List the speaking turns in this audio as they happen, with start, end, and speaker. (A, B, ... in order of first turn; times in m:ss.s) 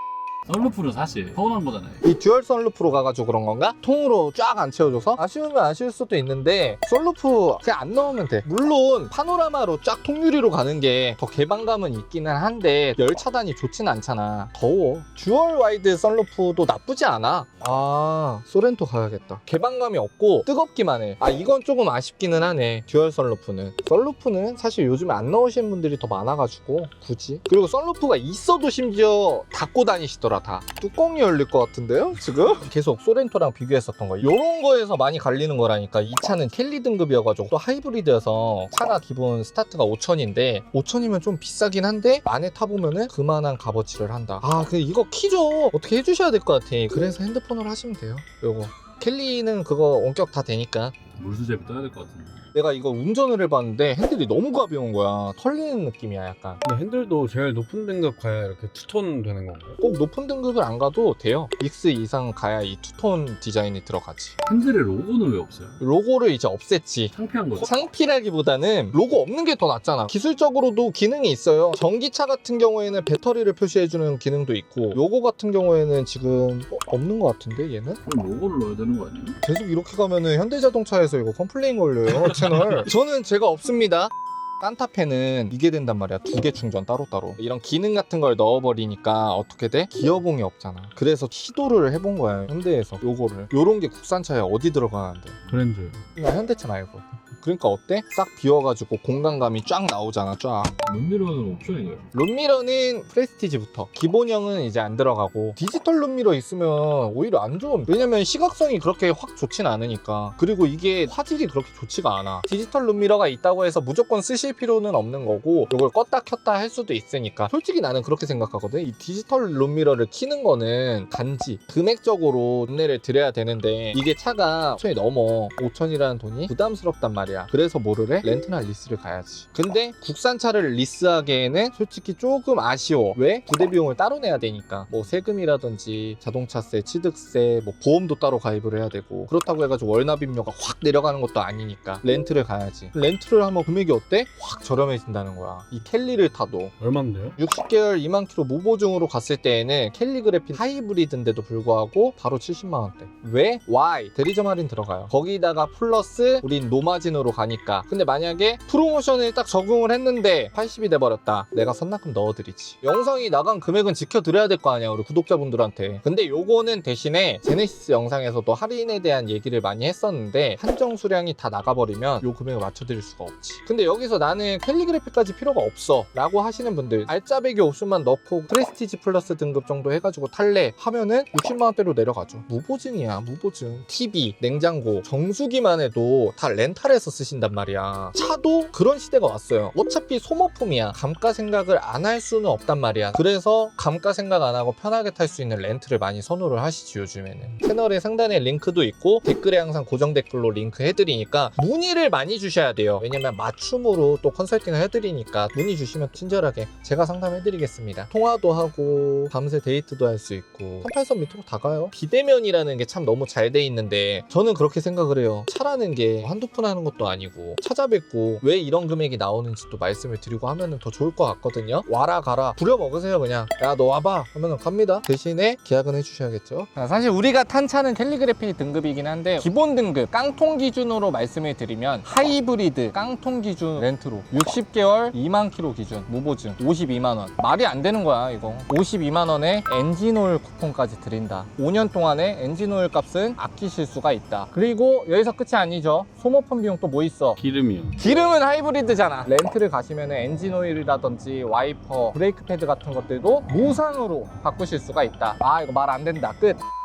0:00.5-0:02.0 A
0:02.0-0:50.9 B
0:51.2-0:52.4 A
0:52.5-0:56.6 B
0:56.6-0:59.8 C
0:59.8-1:04.3 B
1:04.4-1:05.8 A
1:05.8-1:18.0 B
1:07.1-1:07.8 A
1:18.0-1:19.4 A
1:19.4-1:35.4 B
1:35.5-1:36.0 C
1:36.2-1:40.8 B
1:40.8-1:42.0 A
1:42.1-2:26.7 B
2:26.8-2:27.4 C
2:27.4-4:07.4 B
4:07.4-4:08.0 C
4:08.0-4:16.6 B